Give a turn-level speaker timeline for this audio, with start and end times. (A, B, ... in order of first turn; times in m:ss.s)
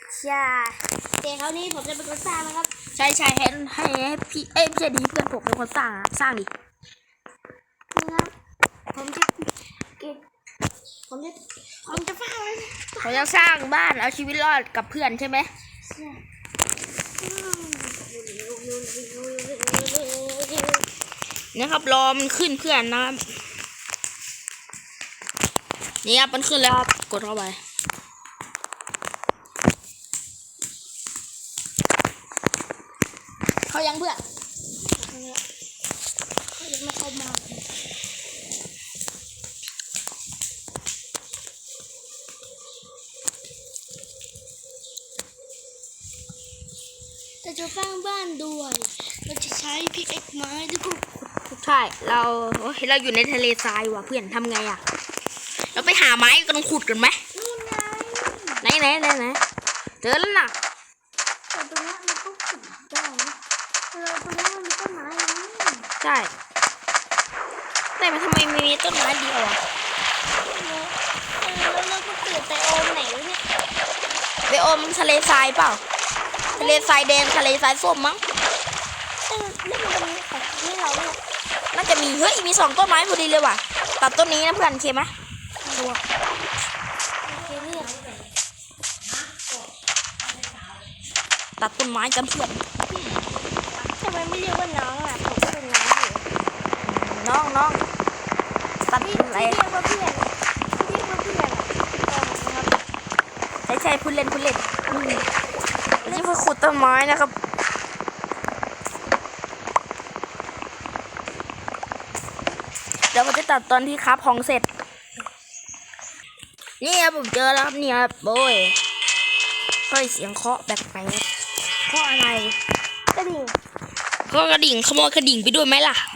0:00.1-0:02.7 A
0:02.9-0:06.5 B
0:07.9-0:08.3 A
0:08.9-0:10.2 A
0:11.1-0:13.6 A
0:13.0-0:15.5 B
0:15.9-0:16.2 A
0:17.2-0:20.8 A
0:21.5-0:23.2 B
0:26.0-0:27.6 B
0:33.7-0:34.2 B
0:34.9-0:35.4 A
0:36.6-0:37.6 A
0:47.4-0:51.2 A
0:51.4-0:54.8 B
0:55.7-0:57.2 B
0:57.3-0:58.6 A
0:58.6-0:59.4 B
1:00.0-1:00.5 B
1:01.5-1:03.4 A
1:03.9-1:05.9 A
1:06.0-1:06.3 B
1:08.0-1:09.6 B
1:10.4-1:13.4 A
1:14.5-1:15.8 B
1:16.5-1:16.9 A
1:16.6-1:18.2 B
1:19.3-1:21.2 A
1:21.7-1:25.1 B
1:25.7-1:26.0 B
1:27.2-1:28.2 A
1:31.6-1:32.6 B
1:34.0-1:36.2 A
1:36.8-1:37.8 B
1:38.9-1:39.6 B
1:39.0-1:42.8 A
1:43.7-1:44.6 B
1:44.9-1:45.3 A
1:46.0-1:46.3 A
1:46.0-1:47.3 B
1:53.1-1:54.7 B
1:56.8-1:58.8 B
1:59.9-2:01.2 B
2:01.9-2:02.5 B
2:03.1-2:03.6 A
2:04.3-2:06.0 B